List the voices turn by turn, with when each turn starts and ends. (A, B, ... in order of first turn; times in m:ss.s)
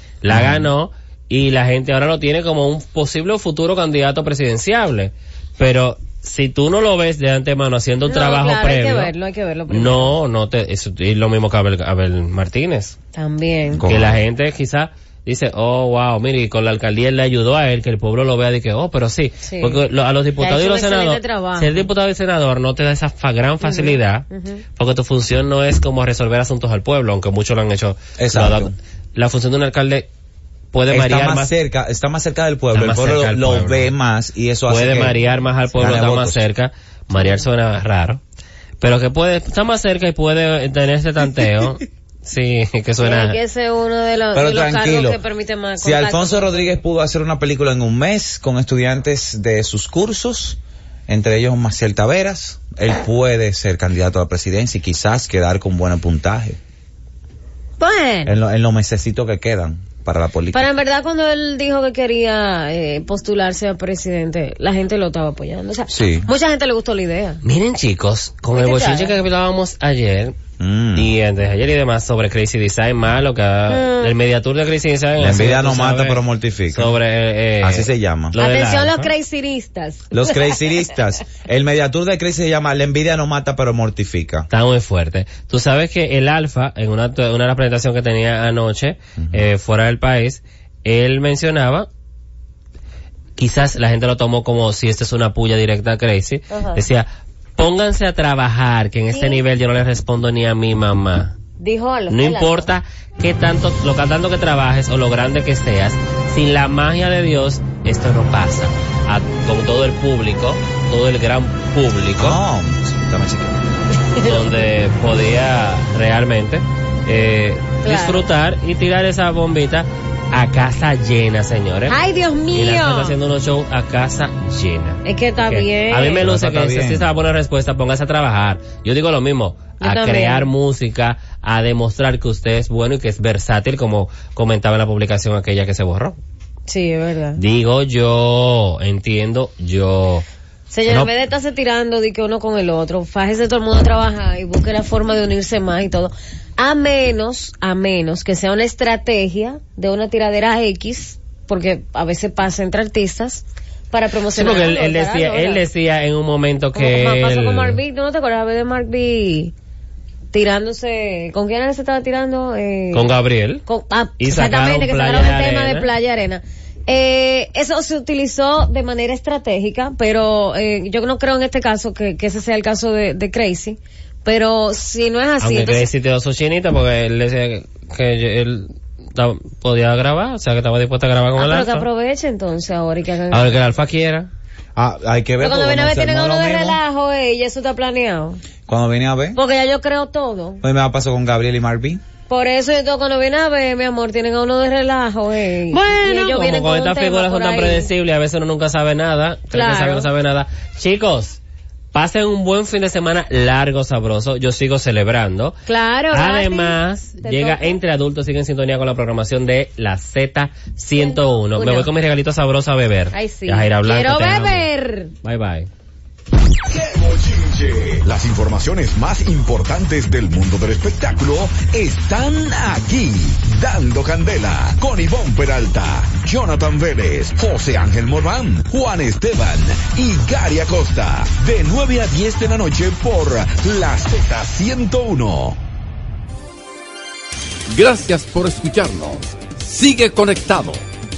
0:00.2-0:09.1 A
0:00.3-0:00.7 B
0:08.1-0:10.1 C
0:09.7-0:13.0 A
0:13.2-0:13.8 C
0:13.7-0:14.2 B
0:13.9-0:30.1 A
0:19.4-0:19.8 C
0:20.4-0:21.9 C
0:23.6-0:24.6 C
0:28.2-0:28.7 B
0:30.7-0:31.5 A
0:30.9-0:36.4 B
0:32.7-0:33.9 A
0:34.7-0:38.2 A
0:38.8-0:43.4 A
0:43.0-0:46.8 C
0:44.3-0:45.2 B
0:45.8-0:56.6 B
0:57.8-0:58.3 C
0:58.3-1:00.7 B
1:00.5-1:07.4 C
1:05.9-1:06.3 B
1:07.4-1:10.4 A
1:08.5-1:09.2 C
1:10.6-1:11.1 B
1:11.0-1:19.1 A
1:13.7-1:14.1 C
1:15.2-1:17.0 B
1:17.6-1:18.4 B
1:18.4-1:20.6 C
1:20.1-1:24.5 B
1:24.5-1:31.9 A
1:33.4-1:41.4 A
1:36.5-1:36.8 C
1:39.1-1:39.4 C
1:41.6-1:42.7 C
1:42.1-1:52.4 A
1:52.2-1:53.6 B
1:54.0-1:54.4 C
1:54.2-2:02.0 A
1:57.8-1:58.2 C
2:01.9-2:03.2 C
2:02.5-2:16.2 A
2:05.0-2:06.2 C
2:06.2-2:07.1 B
2:09.8-2:10.5 C
2:16.7-2:17.4 C
2:17.4-2:20.2 A
2:20.7-2:35.6 C
2:20.9-2:21.1 B
2:34.3-2:37.8 A
2:36.8-2:39.5 C
2:40.3-2:43.1 C
2:42.9-2:43.6 A
2:43.7-2:55.9 C
2:44.2-2:45.9 A
2:55.4-3:01.9 A
3:01.4-3:03.6 C
3:03.3-3:04.3 A
3:04.8-3:06.8 B
3:05.4-3:08.4 C
3:08.7-3:09.4 B
3:09.4-3:10.6 C
3:10.6-3:12.0 B
3:12.3-3:17.9 C
3:15.7-3:21.4 A
3:19.5-3:20.1 C
3:21.9-3:25.6 A
3:25.7-3:27.8 C
3:26.1-3:34.7 A
3:31.0-3:31.9 C
3:33.1-3:35.1 C
3:35.2-3:35.7 A
3:36.7-3:55.6 D
3:57.7-4:00.8 E